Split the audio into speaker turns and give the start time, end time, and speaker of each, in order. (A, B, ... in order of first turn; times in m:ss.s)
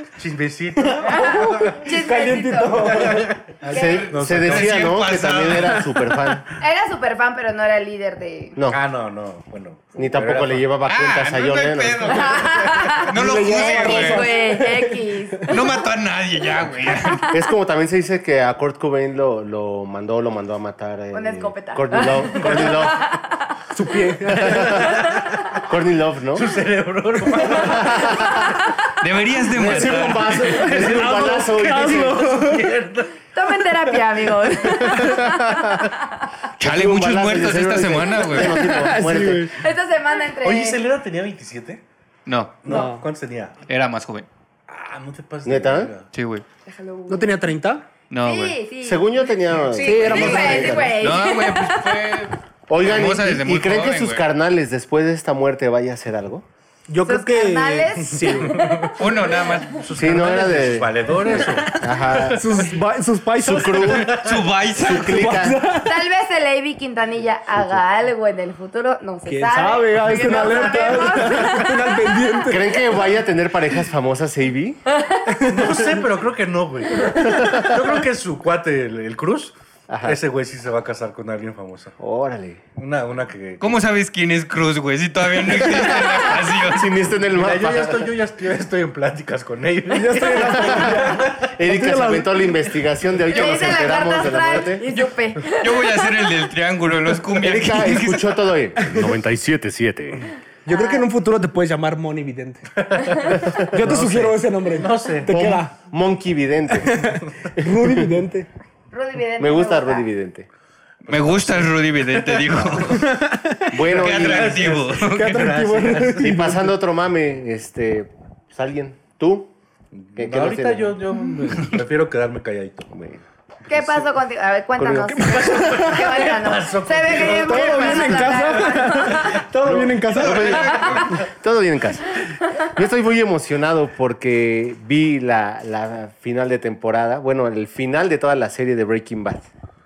0:00.2-0:01.8 A
0:00.8-0:03.4 B
0:01.1-0:03.0 C
0:02.8-0:05.0 A
0:03.7-0:04.1 C
0:03.7-0:06.5 D
0:04.0-0:05.8 E
0:06.6-0:08.6 C
0:08.7-0:10.7 A
0:10.0-0:12.4 D
0:10.8-0:14.3 E
0:12.1-0:15.7 C
0:13.1-0:15.5 B
0:15.5-0:17.3 E
0:17.3-0:23.0 D
0:21.1-0:23.4 C
0:23.7-0:24.9 B
0:24.3-0:24.9 D
0:24.4-0:25.6 A
0:25.6-0:26.5 D
0:26.3-0:28.4 A
0:27.6-0:28.3 D
0:29.0-0:30.4 E
0:29.5-0:32.4 D
0:29.6-0:32.7 B
0:30.5-0:33.1 A
0:33.3-0:36.2 C
0:36.6-0:38.6 E
0:36.6-0:39.5 D
0:38.4-0:39.6 B
0:39.6-0:40.8 C
0:40.4-0:41.8 A
0:42.2-0:42.6 E
0:42.6-0:43.6 A
0:42.6-0:43.1 B
0:43.7-0:44.3 E
0:44.7-0:46.1 A
0:45.4-0:45.9 D
0:46.1-0:46.4 E
0:46.6-0:47.3 C
0:47.1-0:47.8 B
0:48.1-0:48.6 E
0:48.2-0:52.2 C
0:48.8-0:50.9 D
0:49.8-0:50.9 B
0:50.0-0:54.2 E
0:52.7-0:56.4 D
0:56.9-0:58.9 B
0:57.0-0:59.0 C
0:58.1-0:59.0 A
0:59.0-0:59.9 E
0:59.7-1:02.6 A
0:59.9-1:02.6 D
1:02.3-1:04.0 B
1:03.4-1:04.1 D
1:03.6-1:04.5 A
1:04.1-1:05.3 E
1:04.8-1:05.6 D
1:04.9-1:05.9 B
1:05.8-1:11.8 C
1:09.2-1:12.7 B
1:10.6-1:11.6 A
1:12.5-1:14.8 D
1:14.9-1:15.2 C
1:15.3-1:16.0 B
1:15.5-1:21.9 A
1:17.2-1:17.8 D
1:19.9-1:20.2 D
1:22.0-1:22.6 D
1:22.8-1:23.8 A
1:23.6-1:26.9 E
1:25.7-1:28.1 D
1:27.3-1:31.6 A
1:29.9-1:32.5 B
1:30.5-1:34.8 D
1:33.3-1:36.1 C
1:34.9-1:38.4 E
1:37.4-1:40.3 D
1:40.6-1:42.7 B
1:40.7-1:41.0 C
1:42.8-1:45.4 A
1:43.5-1:44.2 D
1:43.6-1:45.7 B
1:45.3-1:47.0 D
1:46.8-1:48.5 B
1:48.9-1:50.1 C
1:49.4-1:50.5 D
1:51.0-1:52.8 A
1:51.1-1:53.1 E
1:53.0-1:53.7 B
1:53.7-1:54.7 D
1:53.9-1:56.4 A
1:53.9-1:55.4 E
1:55.0-1:56.7 B
1:56.2-1:59.5 D
1:59.9-2:02.9 A
2:00.2-2:01.0 D
2:02.9-2:03.2 D
2:03.7-2:04.1 A
2:03.7-2:09.4 C
2:04.8-2:05.5 D
2:05.2-2:06.1 B
2:05.2-2:09.4 A
2:07.2-2:10.9 B
2:09.6-2:19.5 D
2:10.1-2:11.2 E